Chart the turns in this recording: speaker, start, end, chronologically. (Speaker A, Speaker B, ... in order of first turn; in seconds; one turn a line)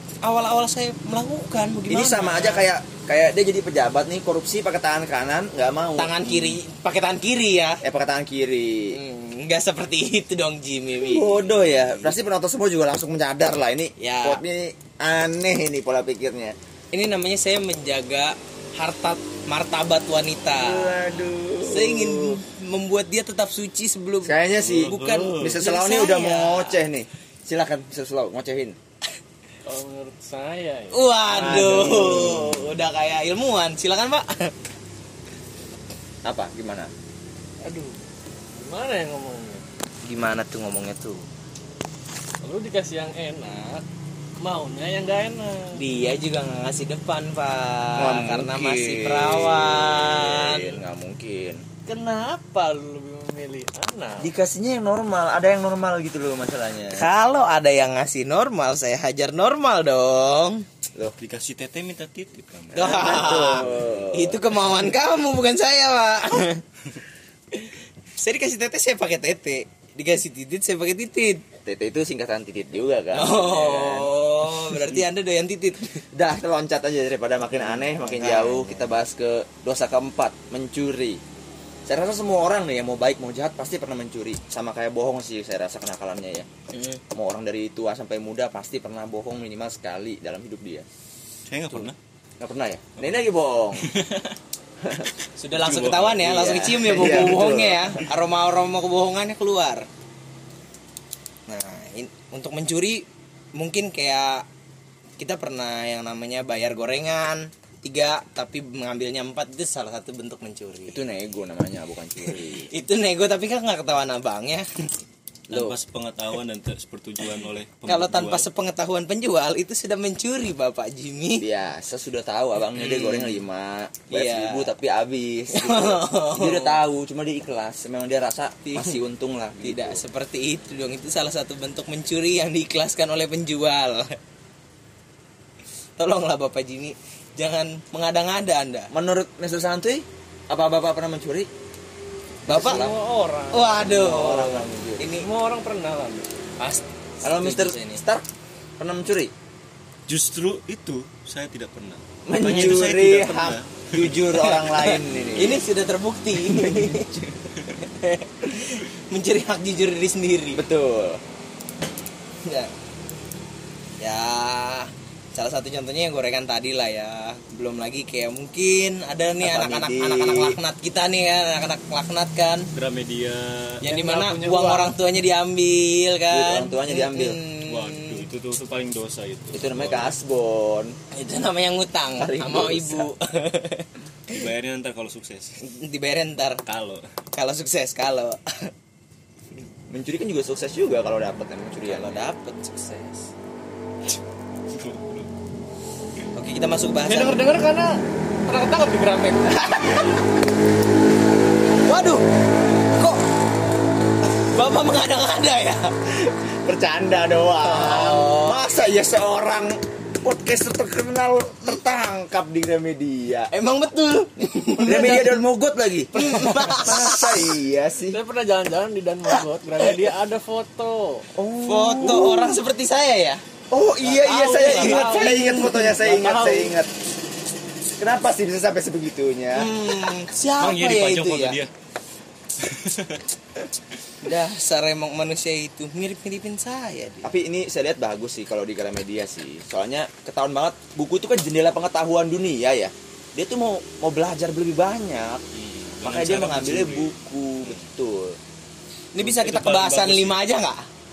Speaker A: 0.2-2.7
Speaker B: 1.9-6.6
Speaker A: 6.0-7.8
Speaker B: 7.8-9.0
Speaker A: 8.9-12.1
Speaker B: 11.0-16.5
Speaker A: 14.0-14.4
Speaker A: 16.9-21.0
Speaker B: 20.5-22.4
Speaker A: 21.6-26.8
Speaker B: 24.2-28.8
Speaker C: 24.6-25.6
Speaker D: 29.6-31.0
Speaker A: 30.9-34.5
Speaker B: 31.3-32.7
Speaker B: 36.2-36.9
Speaker D: 37.6-38.0
Speaker D: 38.5-39.6
Speaker A: 40.0-41.2
Speaker D: 42.4-43.9
Speaker D: 44.4-45.8
Speaker A: 45.7-50.8
Speaker B: 48.0-51.6
Speaker D: 51.9-54.3
Speaker B: 54.2-57.0
Speaker A: 56.9-60.6
Speaker C: 61.2-63.6
Speaker A: 62.7-66.6
Speaker B: 62.8-64.5
Speaker A: 68.2-71.4
Speaker B: 71.6-74.1
Speaker A: 73.1-76.0
Speaker B: 76.1-81.2
Speaker A: 77.6-78.8
Speaker B: 81.9-86.5
Speaker A: 86.7-87.0
Speaker B: 87.1-90.9
Speaker C: 91.5-92.0
Speaker B: 92.4-93.9
Speaker C: 93.8-94.3
Speaker B: 94.8-95.1
Speaker A: 95.4-99.9
Speaker C: 95.5-96.3
Speaker B: 96.2-98.0
Speaker A: 101.5-104.5
Speaker A: 105.2-111.0
Speaker B: 110.9-112.7
Speaker A: 112.3-114.9
Speaker C: 115.5-118.5
Speaker B: 115.5-115.8
Speaker A: 117.9-121.5
Speaker B: 121.4-130.0
Speaker A: 122.8-123.4
Speaker A: 124.1-124.7
Speaker A: 125.5-126.8
Speaker A: 128.6-129.0
Speaker A: 129.6-134.2
Speaker A: 136.0-138.9
Speaker B: 138.9-141.5
Speaker A: 142.5-142.9
Speaker B: 142.5-142.9
Speaker D: 142.5-144.0
Speaker A: 143.5-145.2
Speaker B: 143.8-145.1
Speaker D: 145.2-146.3
Speaker A: 146.6-148.0
Speaker B: 147.2-148.2
Speaker B: 148.8-149.3
Speaker C: 150.1-154.3
Speaker B: 152.2-155.6
Speaker A: 154.4-157.2
Speaker B: 156.4-157.3
Speaker A: 157.8-160.6
Speaker B: 160.5-161.2
Speaker A: 162.4-162.7
Speaker A: 164.0-172.7
Speaker B: 169.4-170.6
Speaker C: 172.7-173.8
Speaker A: 173.8-178.3
Speaker D: 173.8-174.9
Speaker B: 176.3-177.4
Speaker C: 177.7-180.1
Speaker B: 179.5-181.0
Speaker A: 181.1-184.4
Speaker B: 182.1-183.1
Speaker C: 184.3-185.6
Speaker A: 185.6-186.6
Speaker C: 186.7-187.0
Speaker A: 187.3-188.7
Speaker B: 189.9-192.3
Speaker A: 191.8-193.3
Speaker C: 194.7-195.3
Speaker A: 196.3-197.4
Speaker D: 197.1-200.0
Speaker A: 201.8-202.2
Speaker A: 202.9-203.2
Speaker A: 204.4-205.9
Speaker B: 206.1-213.5
Speaker A: 207.6-208.7
Speaker A: 213.5-215.4
Speaker B: 214.8-218.2
Speaker A: 216.1-217.5
Speaker D: 218.1-221.3
Speaker B: 221.4-222.6
Speaker A: 221.6-223.4
Speaker B: 223.7-226.9
Speaker D: 224.0-226.7
Speaker A: 224.5-225.5
Speaker B: 228.0-229.7
Speaker A: 229.5-231.6
Speaker C: 230.6-231.7
Speaker C: 232.6-233.2
Speaker A: 234.2-237.3
Speaker B: 237.2-245.4
Speaker C: 245.5-247.1
Speaker B: 246.0-248.4
Speaker A: 249.1-250.8
Speaker C: 249.2-250.4